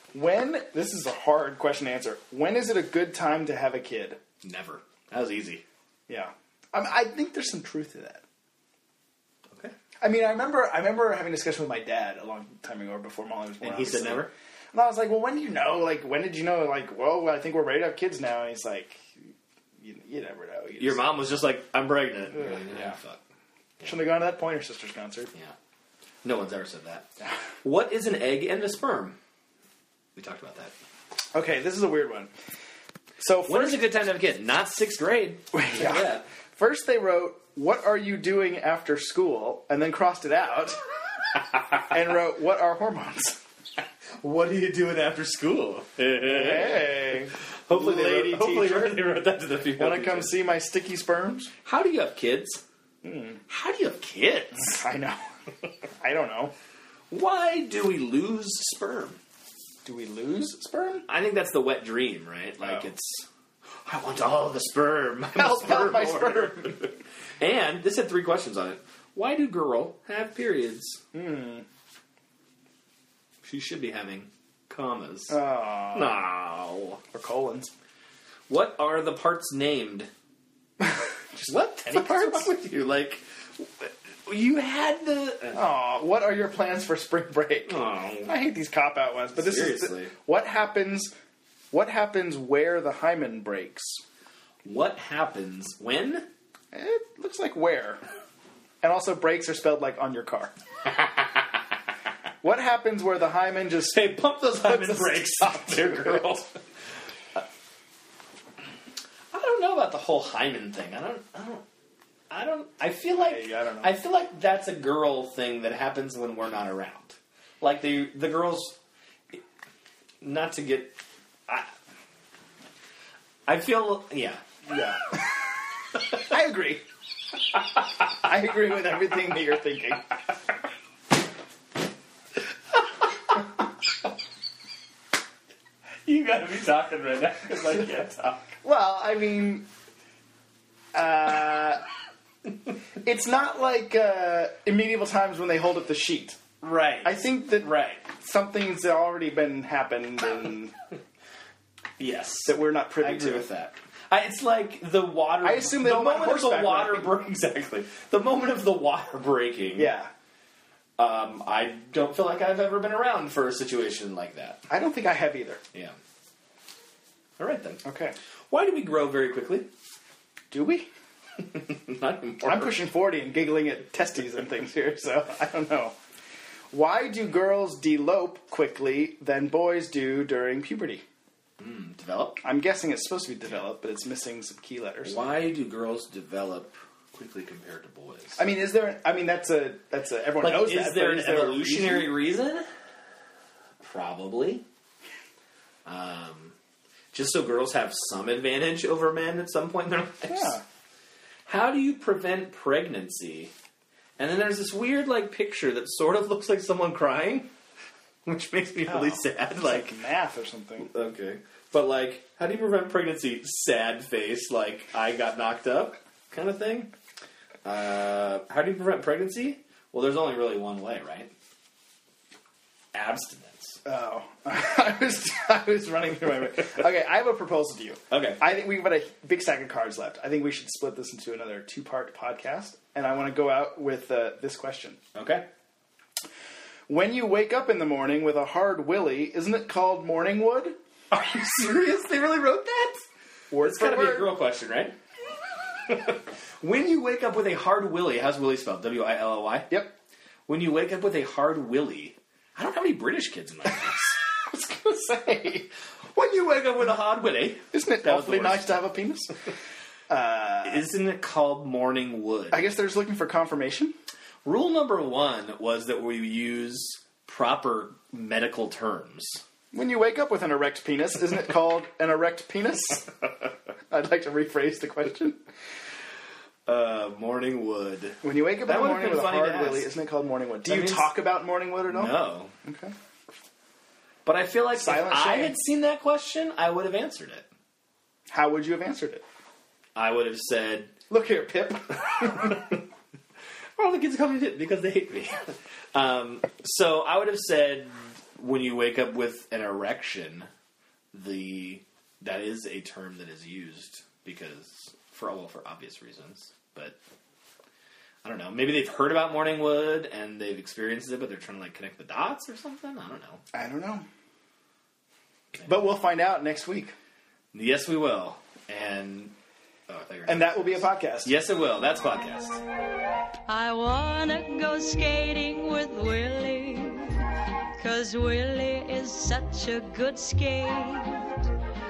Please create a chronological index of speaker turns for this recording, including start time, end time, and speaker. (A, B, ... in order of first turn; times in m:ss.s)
0:00.1-0:04.2 A
0:04.4-0:05.6 B
0:06.1-0:08.2 A
0:10.0-0:21.0 A
0:13.6-0:14.3 B
0:20.8-0:23.2 B
0:22.4-0:22.9 A
0:23.8-0:25.3 A
0:26.2-0:27.1 B
0:27.6-0:29.2 B
0:30.2-0:30.7 B
0:31.3-0:32.3 A
0:33.2-0:33.8 A
0:33.4-0:36.2 B
0:35.5-0:40.8 A
0:41.8-0:43.4 A
0:44.2-0:50.4 B
0:46.2-0:49.0 A
0:49.8-0:51.5 A
0:51.6-0:52.6 B
0:53.0-0:53.4 A
0:53.5-0:54.8 B
0:54.6-0:55.2 A
0:56.0-0:56.5 A
0:57.1-0:59.2 B
0:59.8-1:01.0 A
1:01.1-1:03.2 B
1:02.6-1:02.8 A
1:03.8-1:11.0 B
1:05.3-1:06.8 A
1:11.1-1:11.6 A
1:13.4-1:17.0 B
1:15.3-1:16.2 A
1:17.1-1:17.7 A
1:18.5-1:20.1 B
1:21.4-1:25.6 B
1:21.4-1:22.5 A
1:25.5-1:31.1 A
1:27.7-1:28.3 B
1:29.3-1:30.1 B
1:31.7-1:34.0 A
1:34.6-1:36.3 B
1:36.7-1:38.0 A
1:38.8-1:40.5 A
1:42.4-1:46.2 A
1:43.9-1:46.6 B
1:49.3-1:51.6 B
1:52.3-1:58.8 B
1:53.2-1:53.9 A
2:00.2-2:01.7 B
2:03.5-2:04.4 B
2:04.7-2:05.2 A
2:06.0-2:06.8 A
2:08.1-2:10.1 A
2:16.0-2:18.5 B
2:18.6-2:19.7 A
2:20.9-2:21.8 A
2:23.0-2:26.4 A
2:26.6-2:28.0 B
2:27.0-2:30.7 A
2:32.0-2:39.9 B
2:32.4-2:33.5 A
2:35.4-2:37.2 A
2:39.8-2:40.1 A
2:41.0-2:44.7 B
2:44.7-2:45.6 A
2:47.4-2:47.8 B
2:47.8-2:48.1 A
2:48.5-2:49.7 B
2:50.5-2:50.9 A
2:51.4-2:52.8 B
2:52.4-2:55.9 A
2:56.7-3:01.0 A
3:01.6-3:02.4 B
3:02.4-3:05.2 A
3:05.0-3:08.4 B
3:08.4-3:12.1 A
3:10.4-3:12.7 B
3:13.8-3:14.6 B
3:15.8-3:16.5 B
3:17.1-3:20.6 B
3:20.3-3:20.6 A
3:21.5-3:23.5 B
3:24.2-3:27.5 B
3:28.2-3:30.0 B
3:28.9-3:30.9 A
3:30.8-3:36.9 B
3:37.6-3:41.3 B
3:42.9-3:43.8 B
3:43.8-3:55.0 A
3:48.1-3:48.4 B
3:55.1-3:55.4 B
3:56.9-4:00.8 A
4:01.1-4:03.0 B
4:03.5-4:04.3 A
4:03.6-4:05.0 B
4:05.8-4:09.7 B
4:10.5-4:14.2 B
4:14.2-4:15.7 A
4:16.1-4:18.9 B
4:17.7-4:19.3 A
4:20.1-4:20.8 A
4:20.6-4:22.7 B
4:22.5-4:23.9 A
4:24.4-4:29.4 B
4:29.7-4:33.1 A
4:33.9-4:35.4 A
4:36.7-4:39.9 B
4:38.2-4:42.9 A
4:40.6-4:41.2 B
4:41.9-4:42.5 B
4:44.2-4:47.5 B
4:44.7-4:45.6 A
4:48.3-4:49.2 A
4:50.0-4:51.0 B
4:51.1-4:52.8 A
4:53.8-5:00.5 B
5:01.1-5:07.0 B
5:08.2-5:13.4 B
5:13.5-5:14.0 A
5:15.6-5:17.0 A
5:17.5-5:19.3 B
5:19.9-5:22.6 B
5:20.2-5:21.3 A
5:23.5-5:31.5 C